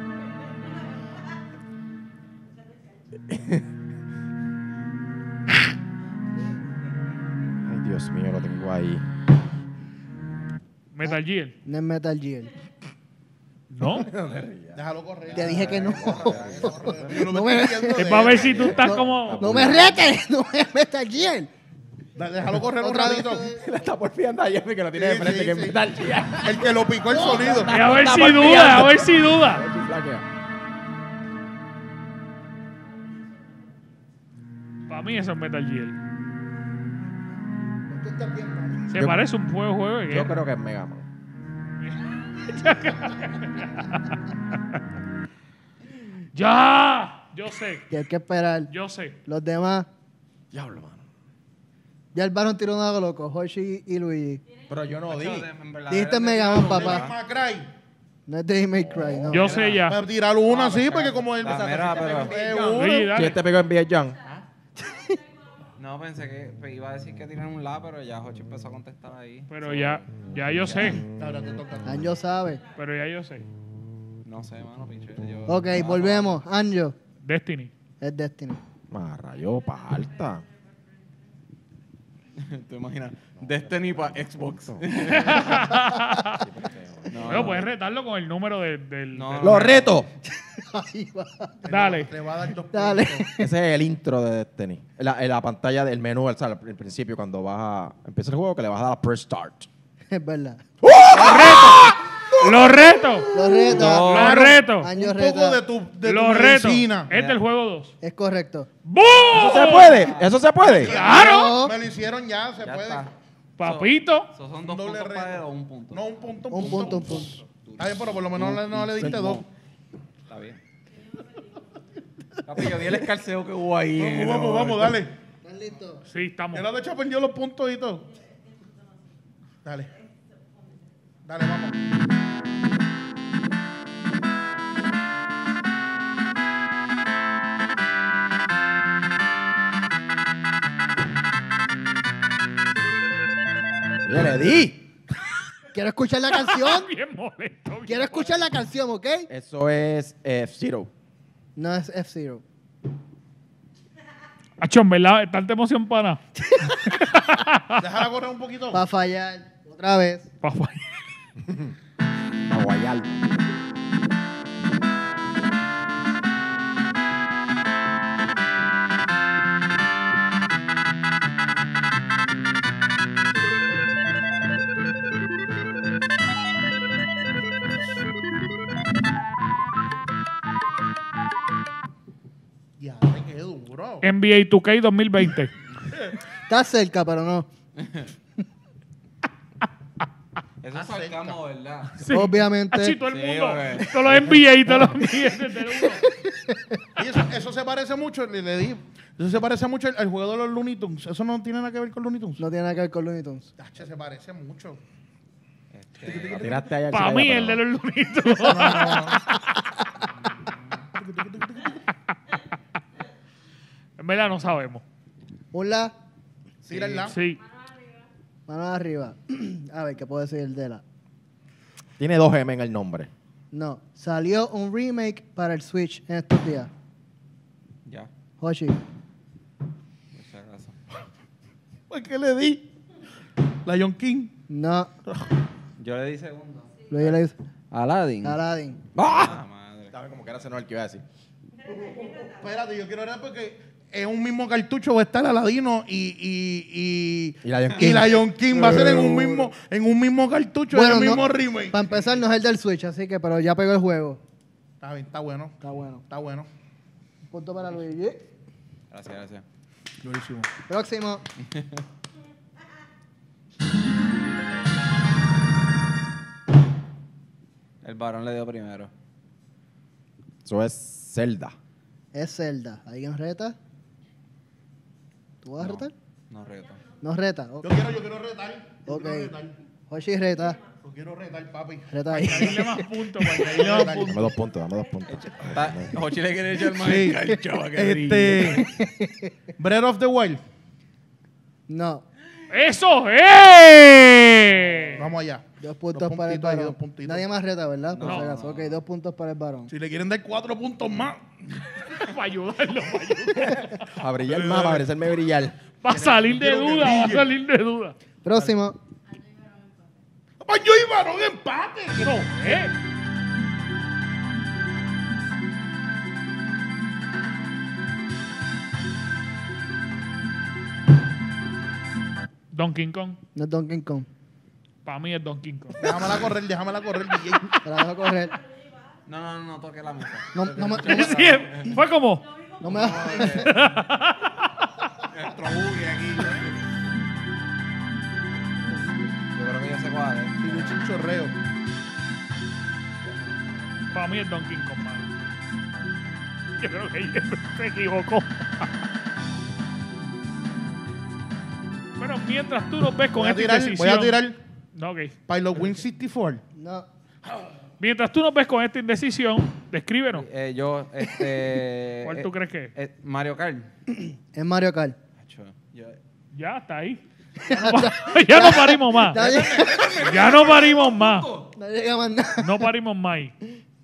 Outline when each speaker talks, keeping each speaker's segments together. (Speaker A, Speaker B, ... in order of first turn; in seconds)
Speaker A: 3.3-3.6, 7.6-9.0, 14.0-14.8, 15.6-17.0, 18.3-20.1, 23.5-30.2, 38.9-39.2, 40.1-41.0, 50.5-51.0, 54.6-55.5, 58.8-59.4, 61.5-64.2, 70.5-71.1, 78.9-80.5, 83.4-85.7, 86.2-87.7, 89.4-90.1, 93.4-99.7, 100.8-102.5, 109.3-111.0, 118.4-119.4, 144.0-144.9, 149.3-150.9, 161.4-161.7, 162.5-163.1, 206.3-207.6, 222.0-223.1, 238.9-241.0, 247.4-248.2, 270.4-271.6, 284.1-286.0, 303.4-305.6
Speaker B: 10.9-11.5, 13.7-14.1, 17.9-19.4, 27.7-29.6, 34.9-36.0, 38.9-40.4, 41.8-44.2, 46.3-47.9, 48.7-49.2, 59.3-60.0, 62.7-63.4, 69.5-71.0, 72.7-73.5, 77.2-77.7, 85.1-86.4, 87.2-89.7, 91.7-92.1, 101.1-104.9, 106.0-107.9, 108.8-110.1, 110.8-111.6, 113.6-114.3, 126.1-126.7, 146.3-148.4, 154.6-156.2, 156.8-157.8, 160.4-160.8, 184.0-185.5, 192.0-196.0, 206.9-209.2, 214.0-214.8, 217.1-217.4, 282.1-284.3, 292.5-295.0, 298.0-298.3, 301.8-303.9, 305.8-307.9, 312.0-312.7, 322.5-323.2, 324.8-325.8, 330.8-332.3, 333.2-334.5, 343.9-345.1, 346.6-348.7, 352.0-354.2, 354.7-355.1, 357.8-360.2, 362.0-362.7, 366.3-369.2, 370.0-371.3, 372.4-373.3
Speaker C: 11.0-12.5, 15.3-21.5, 22.8-23.6, 27.1-27.9, 37.9-38.9, 47.9-48.7, 49.2-49.9, 52.1-54.4, 55.9-57.1, 58.3-59.6, 64.8-65.2, 71.8-72.6, 75.5-77.0, 78.0-78.6, 90.4-91.7, 92.7-93.5, 100.1-100.6, 103.3-105.6, 108.0-108.7, 111.0-111.8, 116.5-117.4, 125.4-126.0, 145.7-146.9, 147.9-149.3, 151.6-152.4, 156.5-156.9, 158.7-160.3, 186.5-187.5, 192.1-193.0, 194.7-195.2, 195.7-196.8, 202.4-203.5, 215.5-215.9, 218.5-220.8, 223.5-226.7, 228.4-228.8, 234.5-234.9, 236.9-237.3, 238.2-238.8, 248.5-249.5, 250.7-254.2, 255.6-256.0, 257.3-258.2, 260.7-261.2, 272.1-273.6, 275.4-275.9, 277.0-277.8, 278.9-279.3, 279.9-280.6, 281.9-283.4, 288.6-289.3, 291.7-292.0, 295.6-299.7, 308.2-308.8, 323.3-324.1, 327.6-328.4, 330.3-331.8, 332.6-333.5, 356.5-356.9, 363.9-365.0, 367.4-370.0, 371.5-372.7
Speaker D: 14.7-18.7, 22.1-23.5, 24.9-25.8, 26.4-27.7, 56.6-57.7, 59.8-63.1, 71.1-72.0, 91.6-93.3, 104.1-107.1, 110.6-113.1, 114.6-119.5, 124.0-125.1, 126.5-128.1, 129.6-130.0, 131.2-131.8, 157.8-158.8, 182.8-184.1, 190.7-191.4, 197.0-202.4, 203.6-204.8, 206.0-206.6, 208.4-209.2, 210.9-211.8, 216.6-217.2, 231.9-232.6, 233.6-234.3, 241.7-251.9, 254.8-256.5, 260.0-260.5, 277.6-279.6, 280.8-282.5, 283.3-284.2, 286.7-288.7, 289.6-290.4, 295.0-297.2, 299.7-301.2, 304.2-304.9, 305.9-307.3, 310.4-312.2, 325.8-327.6, 335.5-336.4, 340.4-341.3, 353.1-354.4, 355.3-356.4
Speaker E: 15.3-17.1, 55.0-57.2, 59.3-62.4, 65.8-70.9, 74.2-76.4, 82.3-85.7, 87.1-87.7, 89.1-90.0, 103.7-104.5, 107.1-107.4, 109.5-110.3, 112.6-116.0, 116.6-118.2, 120.3-120.6, 122.4-125.0, 187.8-188.1, 190.6-192.1, 193.0-194.2, 205.7-206.6, 210.2-210.9, 216.7-217.1, 227.8-228.1, 230.1-230.8, 235.8-237.2, 237.7-238.4, 239.0-239.9, 258.9-259.4, 261.4-261.8, 267.8-268.9, 275.6-276.8, 285.1-288.7, 294.4-295.1, 297.9-298.8, 329.1-331.8, 332.6-333.6, 335.1-336.5, 339.3-340.7, 343.0-344.1, 360.1-363.7, 365.2-366.0, 369.1-371.5